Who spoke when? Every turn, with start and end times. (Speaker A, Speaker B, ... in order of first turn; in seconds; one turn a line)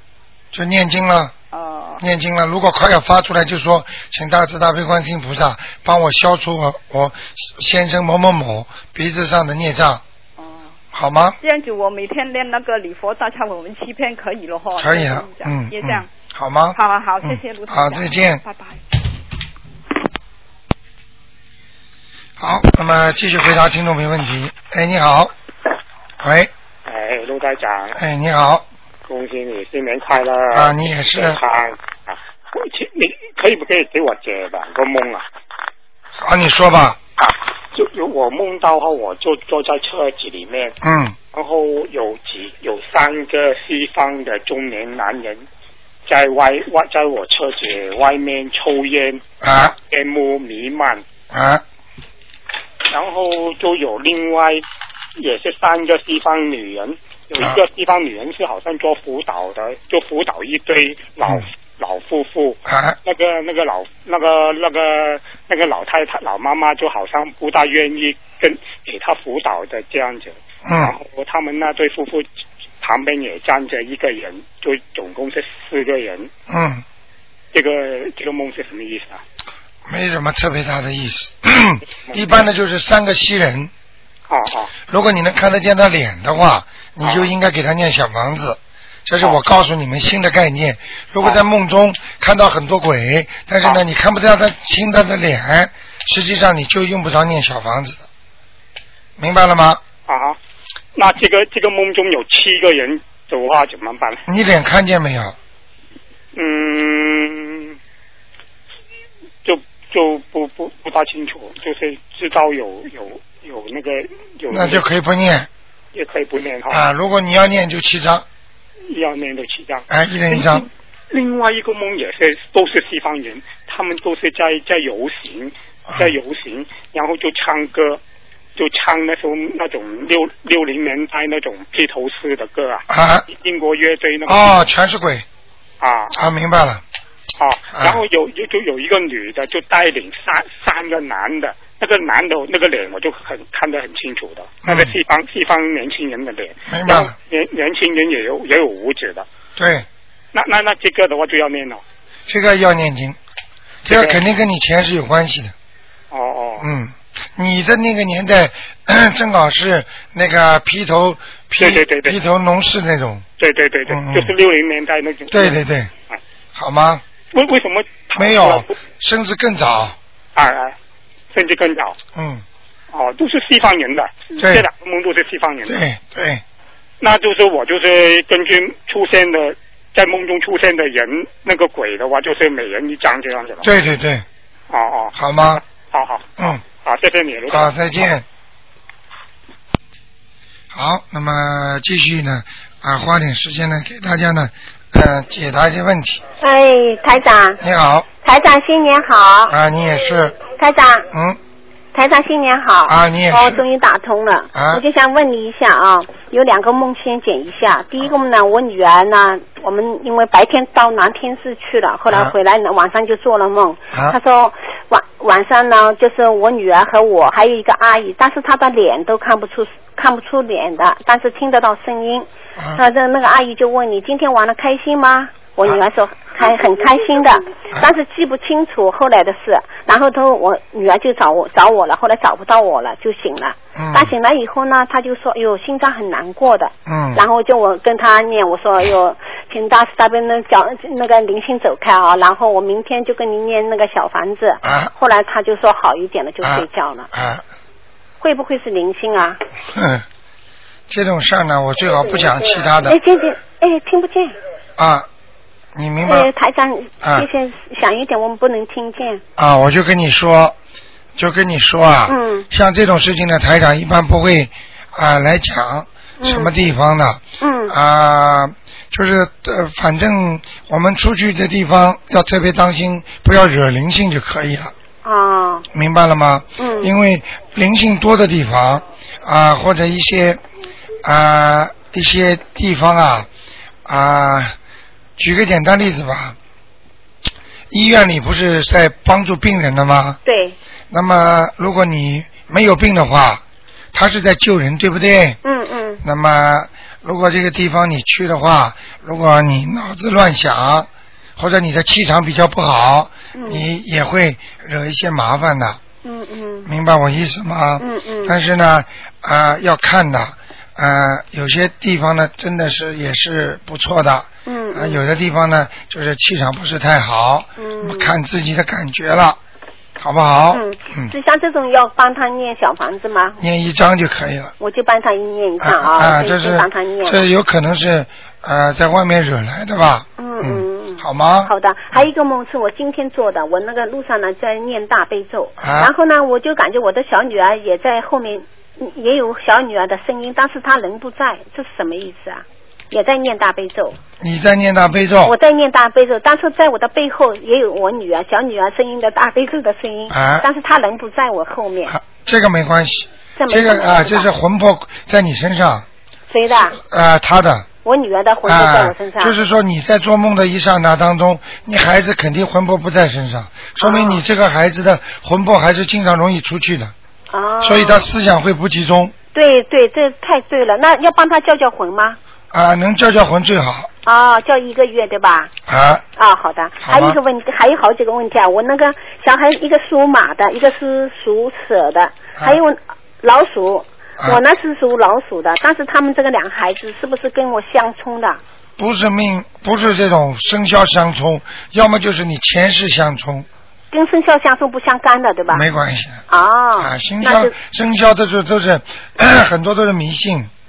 Speaker A: 0.5-1.3
Speaker B: 1.5-2.0
Speaker A: 2.0-10.0
Speaker B: 10.4-10.8
Speaker A: 10.9-11.4
Speaker B: 11.4-16.1
Speaker A: 14.8-18.4
Speaker B: 16.7-18.8
Speaker A: 22.4-25.3
Speaker A: 26.2-26.5
Speaker C: 26.9-28.0
Speaker A: 27.9-28.7
Speaker C: 29.1-35.2
Speaker A: 30.5-31.4
Speaker A: 36.2-37.0
Speaker C: 37.2-40.8
Speaker A: 40.8-41.2
Speaker C: 41.3-45.5
Speaker C: 46.1-49.2
Speaker A: 49.4-49.8
Speaker C: 49.8-51.0
Speaker A: 51.3-51.6
Speaker C: 52.9-54.6
Speaker C: 55.2-72.2
Speaker A: 62.7-63.0
Speaker A: 70.7-71.0
Speaker C: 72.8-76.3
Speaker A: 76.5-76.8
Speaker C: 77.5-79.2
Speaker A: 79.9-83.7
Speaker C: 82.1-82.4
Speaker C: 84.3-84.7
Speaker A: 84.9-98.0
Speaker C: 87.0-87.3
Speaker A: 99.2-99.8
Speaker C: 100.1-100.4
Speaker C: 101.0-104.2
Speaker A: 104.3-105.4
Speaker C: 106.3-107.8
Speaker C: 109.4-114.9
Speaker A: 114.5-115.5
Speaker C: 115.9-116.9
Speaker A: 116.7-118.3
Speaker C: 118.9-128.0
Speaker A: 119.9-120.7
Speaker C: 128.6-134.6
Speaker A: 132.9-133.3
Speaker A: 134.3-135.2
Speaker C: 135.8-136.2
Speaker A: 136.1-136.8
Speaker C: 137.4-149.3
Speaker A: 137.8-138.0
Speaker A: 144.7-144.9
Speaker A: 146.7-147.1
Speaker A: 149.6-149.9
Speaker C: 150.3-151.8
Speaker A: 152.3-153.2
Speaker A: 153.8-155.5
Speaker C: 153.9-154.2
Speaker C: 156.1-156.7
Speaker A: 156.6-163.2
Speaker C: 161.6-162.2
Speaker C: 163.4-166.2
Speaker A: 163.9-164.3
Speaker A: 165.3-165.9
Speaker A: 166.6-167.0
Speaker C: 167.3-168.7
Speaker A: 168.2-170.0
Speaker C: 170.3-170.8
Speaker C: 171.3-172.0
Speaker A: 172.2-172.4
Speaker C: 172.9-175.8
Speaker A: 174.4-174.7
Speaker A: 175.7-176.4
Speaker C: 177.0-183.7
Speaker A: 183.6-184.3
Speaker C: 184.7-185.1
Speaker A: 185.2-185.6
Speaker C: 185.9-187.8
Speaker A: 187.5-188.2
Speaker A: 190.7-196.2
Speaker D: 196.4-197.6
Speaker A: 197.6-198.1
Speaker D: 198.2-199.6
Speaker A: 199.5-200.4
Speaker D: 200.5-201.1
Speaker A: 201.1-201.4
Speaker D: 201.9-247.1
Speaker A: 202.9-203.6
Speaker A: 204.6-204.8
Speaker A: 213.9-214.2
Speaker A: 233.8-234.1
Speaker A: 236.9-237.2
Speaker A: 244.6-244.9
Speaker A: 246.4-247.4
Speaker D: 248.2-249.4
Speaker A: 249.7-250.0
Speaker A: 250.9-253.0
Speaker D: 252.8-254.3
Speaker A: 254.8-255.1
Speaker A: 255.8-256.3
Speaker D: 256.0-259.2
Speaker A: 259.4-260.6
Speaker A: 261.2-274.7
Speaker D: 262.1-262.5
Speaker D: 266.2-266.5
Speaker D: 267.4-267.8
Speaker D: 275.0-275.7
Speaker A: 275.7-280.4
Speaker D: 276.6-276.9
Speaker A: 281.0-283.3
Speaker A: 283.9-284.6
Speaker A: 285.2-286.4
Speaker A: 287.7-290.2
Speaker D: 290.2-290.6
Speaker A: 290.9-293.4
Speaker A: 293.9-295.4
Speaker D: 295.4-296.0
Speaker A: 296.0-305.8
Speaker D: 303.4-303.6
Speaker D: 306.0-306.7
Speaker A: 306.6-319.4
Speaker D: 307.8-308.4
Speaker D: 314.5-315.0
Speaker D: 317.6-318.1
Speaker A: 320.0-321.1
Speaker D: 320.5-323.4
Speaker A: 323.4-324.5
Speaker D: 324.6-327.2
Speaker A: 325.6-332.0
Speaker D: 330.2-344.0
Speaker A: 335.6-335.9
Speaker A: 344.2-345.4
Speaker D: 345.2-351.9
Speaker A: 350.1-350.5
Speaker A: 351.9-355.9
Speaker D: 353.4-354.3
Speaker D: 356.3-356.8
Speaker A: 356.8-357.7
Speaker D: 357.8-359.4
Speaker A: 358.4-366.9
Speaker D: 363.8-364.2
Speaker D: 367.3-368.0
Speaker A: 367.6-369.1
Speaker D: 369.3-372.2
Speaker A: 372.5-373.9
Speaker D: 374.1-375.5
Speaker A: 375.7-376.0
Speaker D: 376.2-388.4
Speaker A: 376.8-377.2
Speaker A: 388.8-393.5
Speaker D: 393.9-395.7
Speaker A: 395.5-396.2
Speaker D: 396.3-397.5
Speaker A: 396.8-400.5